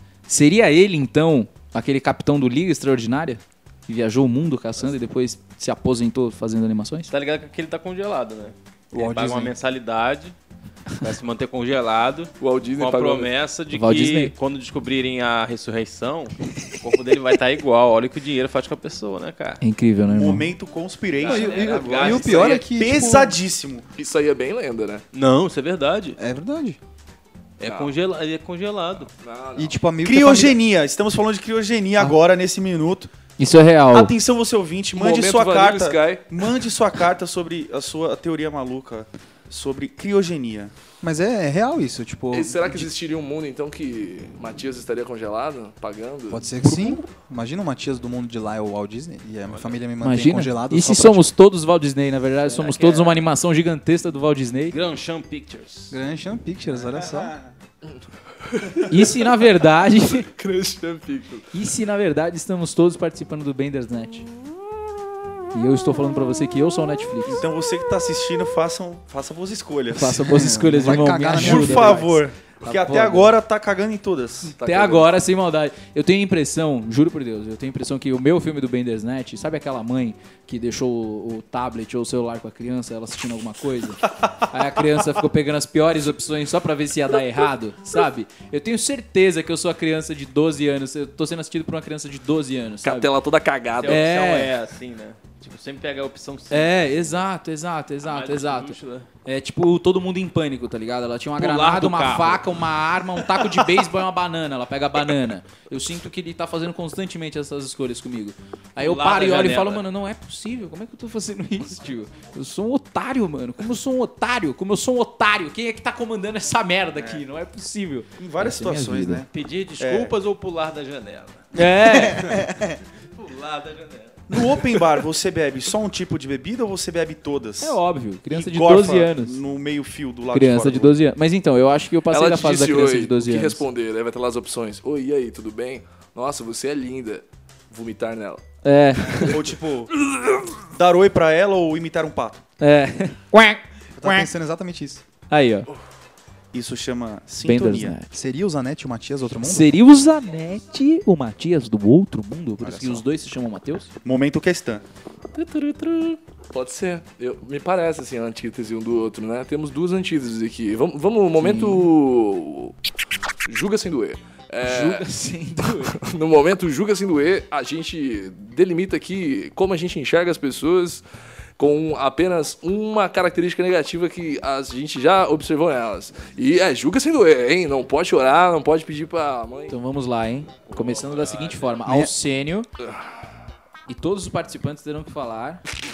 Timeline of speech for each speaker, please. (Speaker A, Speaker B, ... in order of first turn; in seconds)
Speaker A: 0.3-7.1, 13.7-14.3, 19.6-20.5, 33.4-34.1, 46.6-47.0, 50.0-54.8, 58.9-60.3, 61.5-64.3, 65.5-67.4, 69.9-73.3, 74.6-93.1, 93.8-94.5, 96.5-119.2, 121.5-122.4, 127.6-129.4, 130.3-133.6, 138.6-139.4, 142.6-144.1, 145.3-145.7, 147.4-148.1, 149.4-153.9, 161.4-161.9, 164.6-165.9, 179.7-182.7, 183.9-185.6
Speaker B: 7.1-10.3, 10.9-19.6, 21.2-22.7, 25.1-26.2, 27.6-29.1, 49.5-49.7, 52.5-53.2, 54.7-56.0, 93.8-97.2, 98.0-99.1, 101.4-102.6, 108.8-109.8, 119.3-121.5, 123.2-124.2, 180.9-181.3
Speaker C: 8.9-9.5, 21.2-23.4, 26.2-26.8, 29.6-30.6, 41.0-42.9, 46.3-51.3, 55.9-57.4, 70.2-72.1, 121.8-122.8, 144.0-145.0, 148.1-149.7, 152.6-153.0, 181.8-182.1
Speaker D: 12.4-13.3, 21.3-22.4, 23.9-25.0, 27.6-27.9, 29.2-29.8, 34.9-36.3, 42.3-46.5, 57.9-58.9, 60.1-61.5, 74.6-75.1, 92.8-94.1, 132.1-138.4, 139.0-139.4, 140.1-140.5, 155.3-162.7, 163.4-165.1, 165.6-171.0, 171.6-179.8, 182.8-183.1
Speaker E: 20.1-23.8, 30.0-33.1, 33.9-40.7, 57.2-57.4, 67.2-70.4, 71.3-74.5, 118.2-120.1, 124.3-127.8, 128.3-130.9, 139.2-139.9, 140.7-142.4, 146.5-147.9, 154.0-154.8